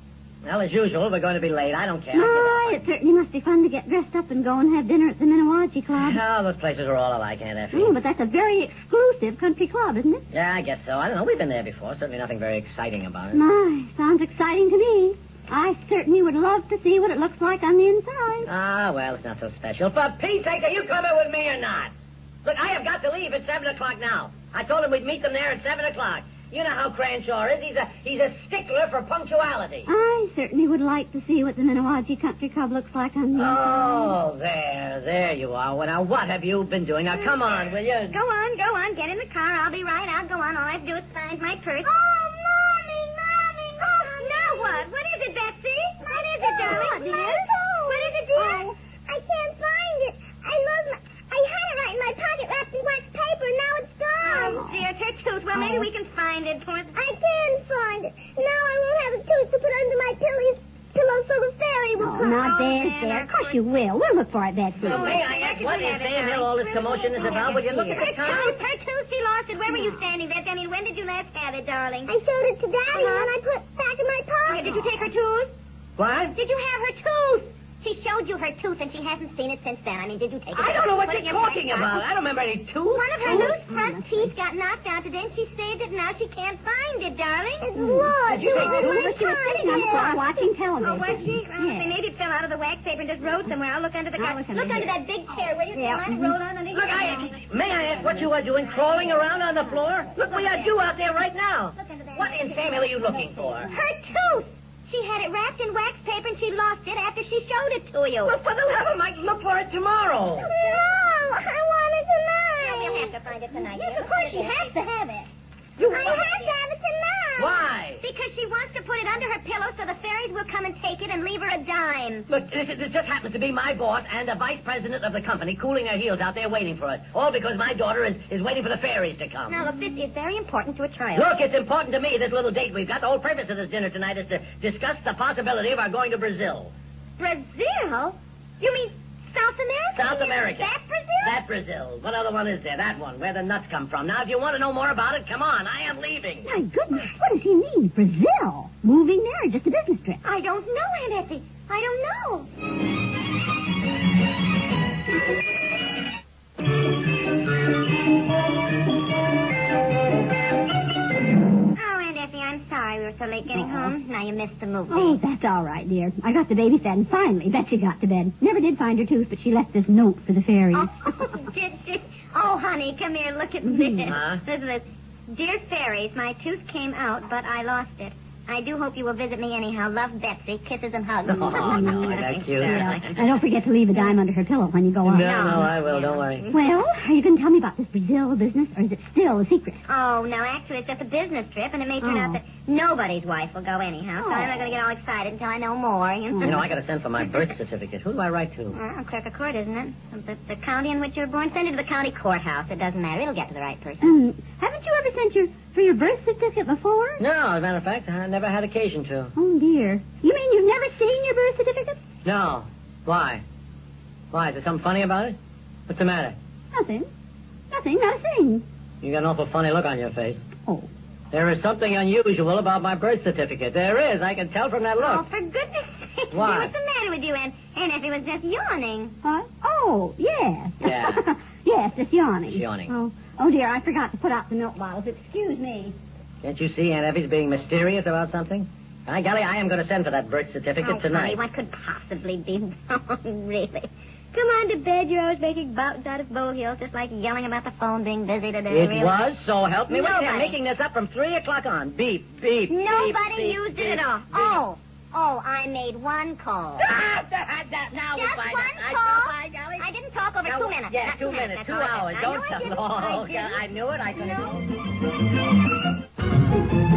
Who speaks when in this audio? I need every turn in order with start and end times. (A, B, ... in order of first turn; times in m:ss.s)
0:00.4-0:02.8 A
0:02.1-0:06.2 B
0:05.9-0:08.0 A
0:07.7-0:10.2 B
0:10.3-0:13.4 A
0:13.3-0:18.5 B
0:18.4-0:21.9 A
0:22.4-0:29.9 A
0:29.8-0:34.2 B
0:33.4-0:38.2 A
0:38.1-0:41.9 C
0:41.8-0:44.9 D
0:43.8-0:48.7 C
0:46.0-0:54.6 D
0:46.5-0:47.3 B
0:48.4-0:48.7 B
0:54.2-0:57.0 C
0:54.4-0:54.8 B
0:55.5-0:55.9 B
0:57.0-1:02.4 D
1:02.0-1:05.2 B
1:02.2-1:03.6 C
1:04.8-1:12.2 C
1:04.8-1:08.6 A
1:09.7-1:10.0 B
1:12.1-1:14.8 D
1:12.9-1:13.3 C
1:14.4-1:15.5 C
1:14.7-1:15.1 B
1:16.0-1:16.4 A
1:16.4-1:22.0 C
1:20.5-1:23.6 A
1:22.9-1:27.7 C
1:23.2-1:24.3 B
1:27.6-1:30.2 D
1:27.8-1:31.9 B
1:28.3-1:29.1 A
1:28.5-1:40.8 C
1:34.2-1:35.0 B
1:35.7-1:36.4 B
1:36.7-1:43.7 A
1:41.8-1:48.4 C
1:48.2-1:50.5 A
1:50.4-1:53.0 D
1:52.6-1:54.8 C
1:53.5-1:55.3 B
1:55.8-1:56.6 C
1:55.8-1:57.7 D
1:57.4-1:58.0 A
1:58.0-2:02.3 C
2:02.3-2:09.6 A
2:09.5-2:11.4 C
2:11.2-2:16.7 A
2:17.2-2:21.4 C
2:19.9-2:26.5 A
2:26.4-2:30.2 B
2:30.2-2:32.5 C
2:41.8-2:45.2 C
2:43.5-2:43.9 B
2:44.9-2:51.1 B
2:50.7-3:03.4 C
2:53.6-2:54.2 B
2:54.1-2:54.4 A
3:01.3-3:03.0 A
3:01.4-3:05.6 B
3:05.0-3:06.4 A
3:05.2-3:06.7 C
3:06.5-3:09.8 B
3:09.9-3:16.7 C
3:12.0-3:12.4 B
3:14.2-3:14.7 B
3:16.3-3:16.6 B
3:16.4-3:18.8 A
3:18.7-3:24.2 C
3:24.0-3:27.2 B
3:27.2-3:29.3 A
3:29.4-3:32.0 B
3:32.2-3:33.4 A
3:34.3-3:35.4 A
3:35.9-3:36.4 A
3:36.7-3:37.1 B
3:37.7-3:38.6 B
3:39.0-3:40.4 A
3:41.3-3:45.2 A
3:45.0-3:49.2 C
3:46.3-3:46.7 A
3:49.2-3:56.0 B
3:50.8-3:51.3 A
3:52.5-3:52.9 A
3:56.4-4:01.4 A
4:00.8-4:09.2 C
4:08.7-4:14.6 A
4:09.9-4:10.6 C
4:12.7-4:17.0 C
4:16.8-4:19.9 A
4:18.1-4:23.6 C
4:20.4-4:24.7 A
4:24.2-4:24.4 C